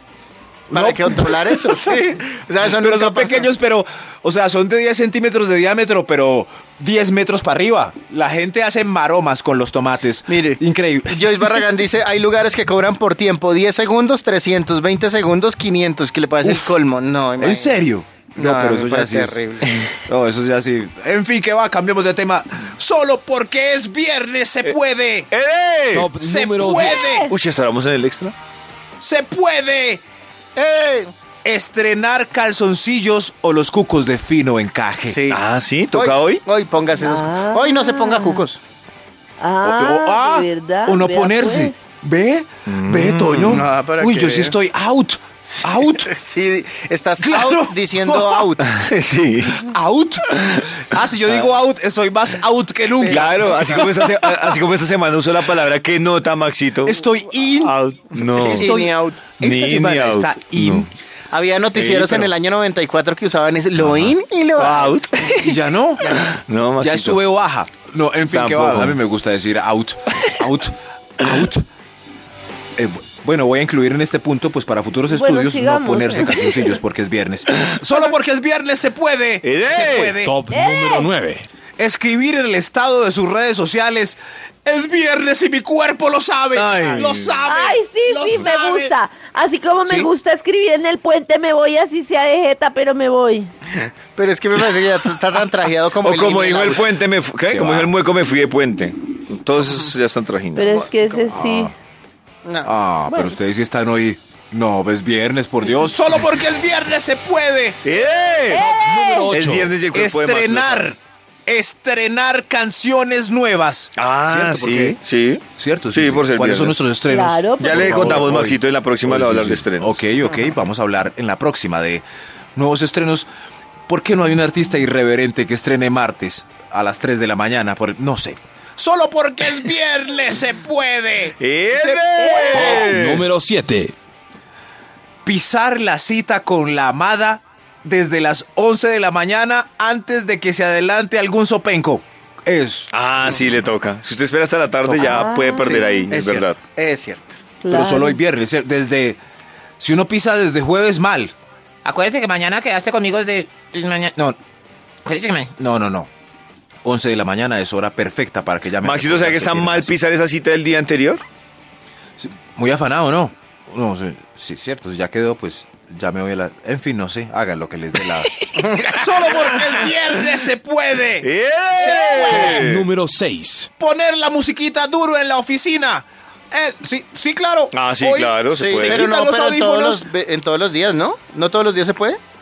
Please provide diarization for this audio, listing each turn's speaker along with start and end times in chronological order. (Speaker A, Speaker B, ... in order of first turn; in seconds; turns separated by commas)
Speaker A: 0.7-1.6, Speaker B: 0.7-3.5, Speaker A: 2.6-11.6, Speaker B: 10.3-17.8, Speaker A: 16.4-16.8, Speaker A: 17.4-19.4, Speaker B: 18.4-19.9, Speaker A: 20.1-25.3, Speaker C: 25.3-26.1, Speaker D: 25.9-27.0, Speaker A: 26.1-27.3, Speaker E: 26.8-27.3, Speaker C: 27.3-28.4, Speaker A: 29.0-30.0, Speaker B: 30.6-31.1, Speaker A: 31.4-35.2, Speaker B: 35.1-35.4, Speaker C: 35.3-36.4, Speaker B: 35.9-38.6, Speaker E: 37.0-38.4, Speaker E: 39.4-41.8, Speaker A: 39.6-46.1, Speaker C: 42.7-43.6, Speaker B: 43.4-44.5, Speaker B: 45.5-48.7, Speaker A: 47.2-48.5, Speaker C: 48.6-49.7, Speaker A: 49.6-54.0, Speaker C: 50.3-50.7, Speaker B: 53.0-53.9, Speaker C: 53.1-57.0, Speaker A: 56.8-57.8, Speaker C: 57.6-58.8, Speaker B: 58.3-59.2, Speaker A: 58.3-60.9, Speaker C: 59.4-60.9, Speaker B: 61.3-65.5, Speaker C: 61.7-62.3, Speaker A: 63.8-64.1, Speaker C: 64.6-65.5, Speaker A: 65.4-66.2, Speaker C: 66.1-67.2, Speaker A: 66.8-71.7, Speaker C: 68.3-69.0, Speaker A: 72.8-80.4, Speaker E: 75.1-76.8, Speaker C: 79.4-80.2, Speaker D: 80.2-81.5, Speaker E: 80.5-81.1, Speaker A: 81.8-88.9, Speaker C: 86.5-87.4, Speaker E: 87.5-93.5, Speaker B: 93.8-96.9, Speaker C: 96.0-100.8, Speaker A: 97.5-97.9, Speaker E: 100.6-101.7, Speaker B: 100.7-101.3, Speaker A: 101.3-101.7, Speaker B: 102.5-102.7, Speaker A: 102.7-107.8, Speaker C: 107.8-108.7, Speaker E: 108.5-109.3, Speaker D: 108.5-109.8, Speaker C: 109.3-110.9, Speaker A: 109.9-115.0, Speaker C: 114.0-116.8, Speaker A: 115.6-122.0, Speaker E: 117.1-118.2, Speaker C: 117.6-120.0, Speaker A: 122.5-123.3, Speaker A: 123.9-132.9, Speaker C: 131.4-133.3, Speaker E: 132.2-132.7, Speaker D: 132.5-133.9, Speaker A: 135.2-143.6, Speaker C: 142.9-146.6, Speaker A: 144.8-145.2, Speaker E: 145.0-146.1, Speaker B: 145.6-147.3, Speaker E: 147.6-148.2, Speaker A: 147.7-149.2, Speaker A: 149.8-151.3, Speaker F: 151.8-154.2, Speaker F: 155.1-155.5, Speaker A: 155.6-156.1, Speaker A: 156.8-160.0, Speaker C: 158.8-161.2, Speaker A: 162.2-168.3, Speaker B: 168.6-169.0, Speaker A: 168.9-172.7, Speaker C: 169.4-169.9, Speaker C: 171.2-172.9, Speaker D: 172.2-173.7, Speaker A: 173.8-180.1, Speaker C: 177.7-179.1, Speaker B: 178.5-182.2